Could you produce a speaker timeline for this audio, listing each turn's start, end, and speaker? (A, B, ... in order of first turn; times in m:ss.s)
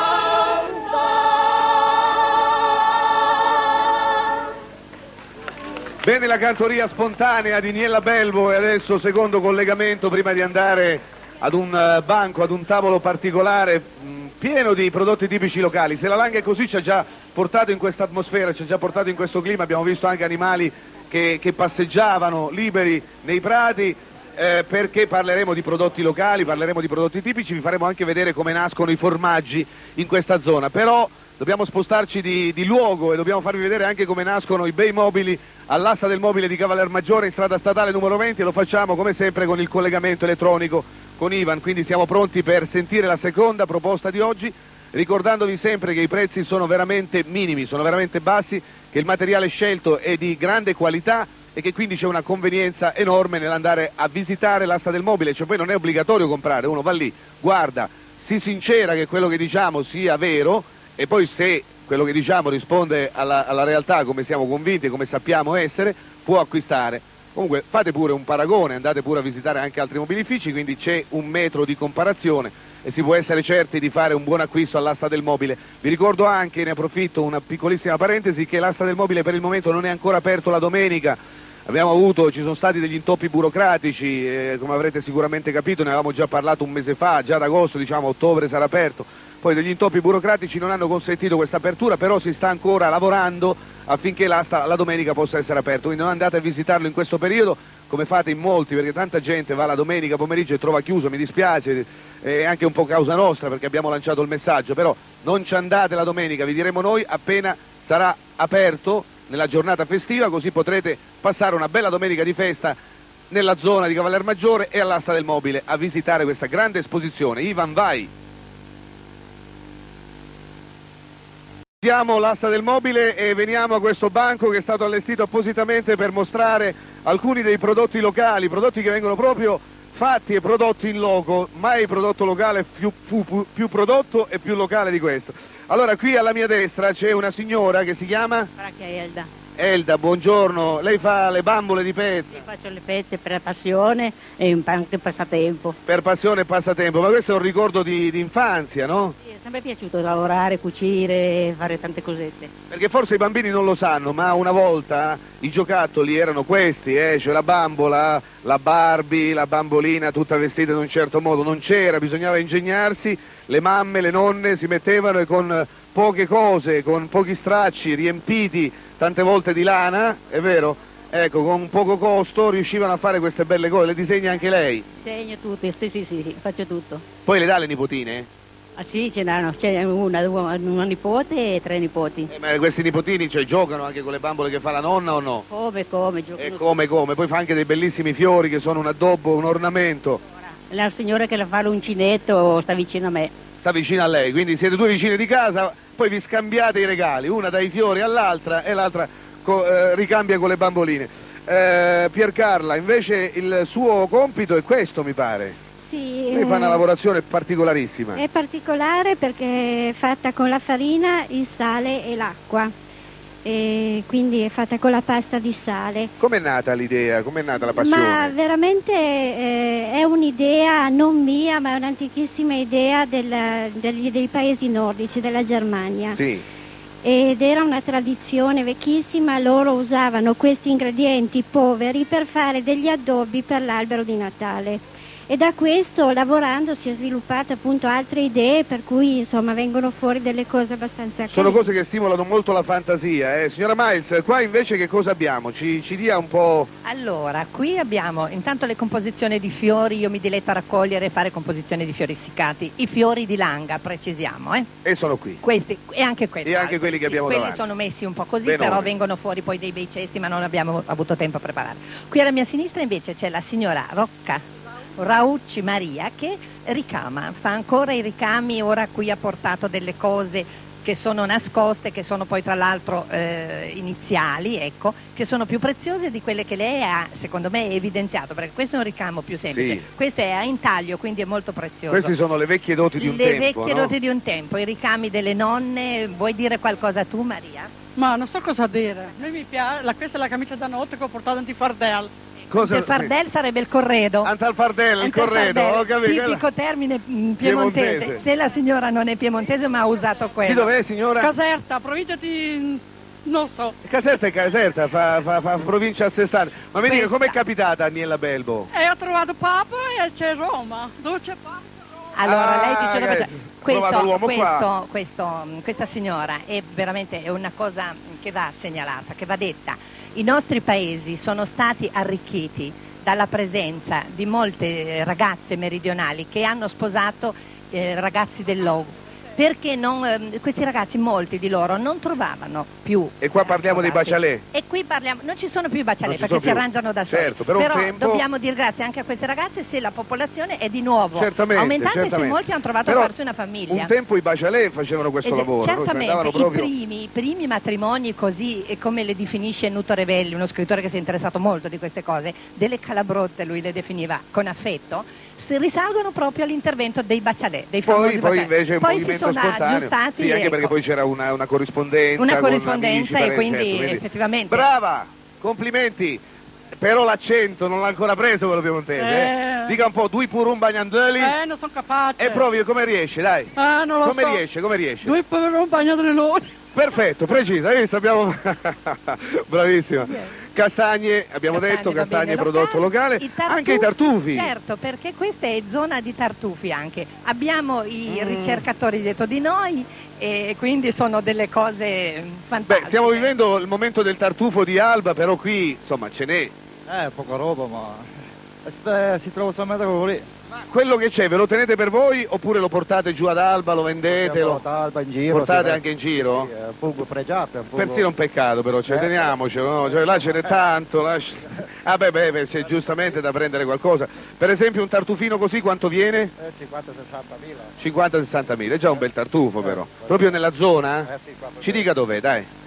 0:06.0-1:52.8 A
1:53.3-1:58.1 A
2:01.8-2:18.5 A
2:18.6-2:19.3 B
2:19.6-2:22.4 A
2:22.3-2:25.8 B
2:25.9-2:29.2 A
2:29.2-2:32.5 B
2:32.7-2:54.9 A
2:55.0-2:57.0 B
2:57.3-2:58.3 A
2:58.8-3:02.3 B
3:02.3-3:05.4 A
3:05.5-3:06.7 B
3:06.4-3:10.2 A
3:10.4-3:13.3 B
3:13.6-3:25.6 A
3:25.8-3:26.8 C
3:26.3-3:28.2 A
3:28.2-3:32.7 C
3:33.4-3:36.1 C
3:36.2-3:38.4 A
3:37.6-3:46.2 C
3:46.2-3:46.4 A
3:47.0-4:01.7 C
4:01.3-4:06.7 A
4:06.8-4:14.7 D
4:14.8-4:15.4 A
4:15.4-4:24.4 D
4:16.4-4:17.6 A
4:18.4-4:18.9 A
4:25.0-4:42.1 D
4:39.5-4:39.8 A
4:41.9-4:43.9 A
4:43.0-4:47.7 D
4:48.0-4:52.1 E
4:52.5-4:53.1 A
4:52.6-4:54.3 D
4:54.2-4:56.4 A
4:55.0-5:00.7 D
4:57.4-4:58.2 A
5:00.4-5:01.3 A
5:01.2-5:03.8 E
5:03.8-5:08.7 A
5:06.8-5:07.4 D
5:08.7-5:11.6 E
5:12.2-5:43.9 D
5:12.2-5:14.7 A
5:33.2-5:34.4 A
5:36.0-5:38.2 A
5:41.1-5:43.1 A
5:43.7-5:46.7 A
5:45.2-6:00.7 D
5:57.8-6:06.2 A
6:02.2-6:04.7 D
6:06.8-6:11.4 A
6:09.0-6:09.8 E
6:11.2-6:12.5 E
6:12.2-6:15.2 A
6:13.6-6:14.4 E
6:15.0-6:16.5 E
6:16.7-6:24.5 A
6:21.5-6:33.3 D
6:28.1-6:28.6 A
6:32.7-6:36.5 A
6:36.9-6:38.0 F
6:38.7-6:40.2 F
6:40.6-6:44.6 A
6:44.2-6:45.7 F
6:45.3-6:46.5 A
6:46.4-6:47.9 F
6:47.8-6:56.3 A
6:56.4-6:57.6 F
6:57.8-7:02.5 A
7:01.1-7:01.7 F